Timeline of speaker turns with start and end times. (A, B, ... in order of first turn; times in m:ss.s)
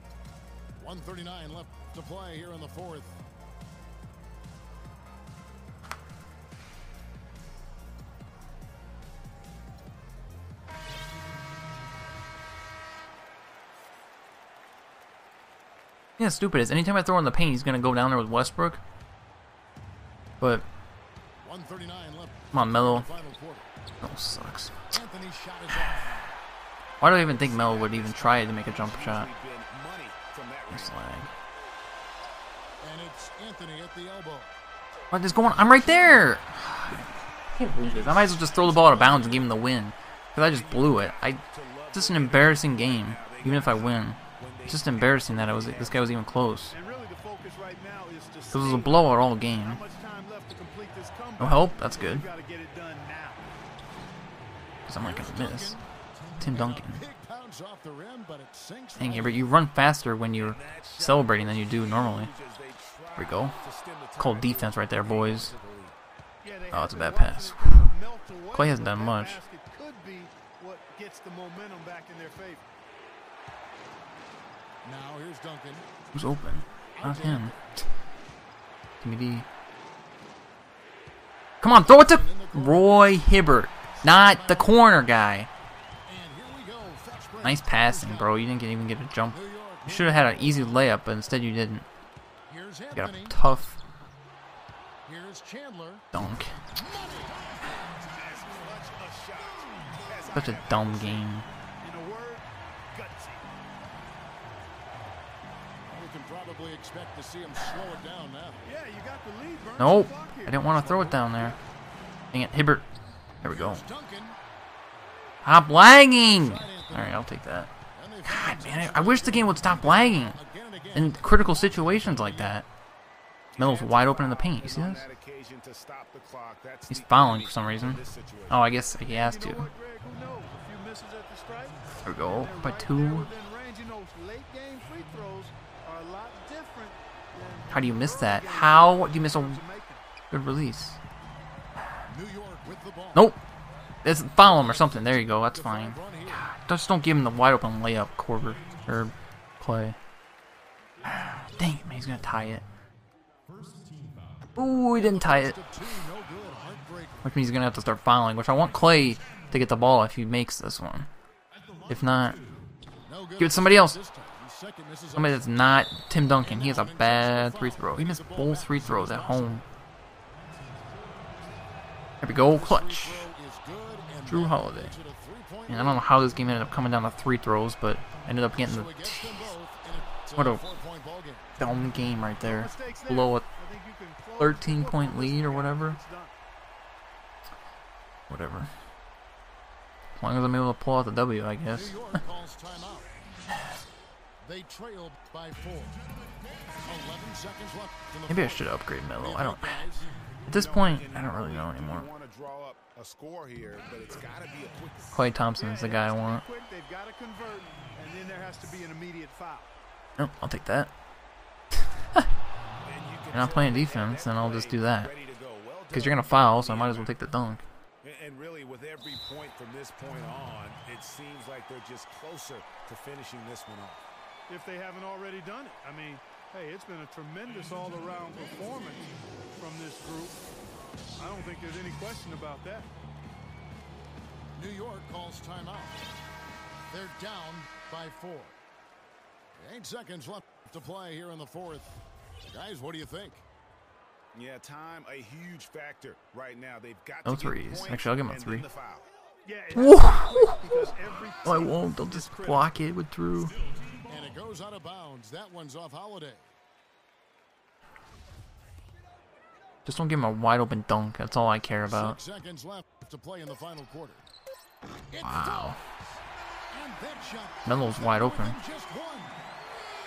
0:00.8-0:03.2 A
0:16.2-0:18.8 B
0:20.4-0:20.6 B
0:21.4-0:23.7 A
0:22.5-0:23.1 B
0:24.0-0:24.9 B
0:24.9-0:26.4 A
0:27.0-0:29.3 B
0:27.0-0:31.3 C
0:30.7-0:31.3 B
0:32.8-0:34.6 A
0:35.1-0:41.4 B
0:37.8-0:39.6 C
0:40.4-0:46.2 C
0:41.9-0:46.8 B
0:46.7-0:53.5 D
0:48.5-0:49.8 B
0:51.4-0:52.3 B
0:54.9-0:55.8 B
0:54.9-0:59.5 A
0:56.4-0:57.0 B
0:59.0-1:02.3 B
1:00.4-1:06.0 C
1:03.2-1:03.6 B
1:04.2-1:05.5 B
1:06.4-1:12.7 D
1:06.7-1:07.9 B
1:08.5-1:09.4 B
1:14.8-1:16.0 A
1:16.1-1:17.5 B
1:16.9-1:17.8 A
1:19.0-1:19.4 B
1:21.6-1:25.5 B
1:21.7-1:23.2 A
1:23.9-1:24.9 A
1:26.1-1:28.4 A
1:27.4-1:31.9 B
1:29.3-1:31.0 A
1:32.5-1:33.4 A
1:32.9-1:33.8 B
1:35.0-1:36.1 A
1:36.1-1:36.6 B
1:36.7-1:37.8 A
1:37.9-1:41.3 C
1:40.3-1:41.5 B
1:41.8-1:43.4 D
1:45.9-1:48.6 A
1:48.6-1:51.6 D
1:49.8-1:51.6 B
1:52.3-1:52.9 B
1:53.4-1:53.8 B
1:53.4-1:54.4 A
1:55.4-1:57.7 B
1:56.3-1:57.3 A
1:57.9-2:02.6 A
1:58.2-2:00.4 B
2:00.9-2:02.6 B
2:03.5-2:08.7 C
2:03.6-2:05.0 B
2:06.9-2:09.7 B
2:09.1-2:20.1 D
2:12.0-2:13.3 B
2:17.7-2:19.6 B
2:20.3-2:21.0 B
2:22.1-2:23.3 A
2:23.1-2:23.4 B
2:24.0-2:30.0 B
2:24.4-2:26.5 A
2:31.0-2:32.6 B
2:34.6-2:35.6 B
2:34.9-2:37.4 A
2:37.2-2:41.1 B
2:41.9-2:42.4 B
2:43.0-2:45.5 A
2:43.4-2:44.0 B
2:45.1-2:49.6 B
2:46.4-2:49.6 A
2:52.2-2:53.3 B
2:52.3-2:56.1 A
2:54.3-2:54.9 B
2:55.7-2:59.5 B
2:58.5-3:01.8 A
3:00.4-3:00.6 B
3:01.6-3:03.4 B
3:02.4-3:06.4 D
3:04.4-3:06.0 B
3:08.3-3:08.7 B
3:10.2-3:12.0 B
3:11.7-3:13.1 A
3:14.4-3:16.0 A
3:16.8-3:20.1 A
3:18.3-3:19.9 B
3:20.5-3:22.1 B
3:20.5-3:25.2 C
3:25.1-3:26.4 B
3:25.6-3:29.7 D
3:30.2-3:30.9 B
3:32.8-3:37.2 C
3:33.3-3:35.1 B
3:35.9-3:37.6 B
3:38.0-3:44.1 C
3:44.5-3:50.4 D
3:51.2-3:52.9 D
3:54.6-3:56.1 A
3:56.9-3:58.6 A
3:59.6-4:03.4 A
4:04.3-4:09.1 C
4:07.2-4:08.6 B
4:09.4-4:12.7 D
4:09.8-4:10.7 B
4:11.4-4:13.6 B
4:14.0-4:16.5 A
4:19.8-4:22.2 B
4:21.9-4:24.2 A
4:25.1-4:26.0 A
4:25.2-4:25.8 B
4:26.7-4:29.4 A
4:27.6-4:28.6 B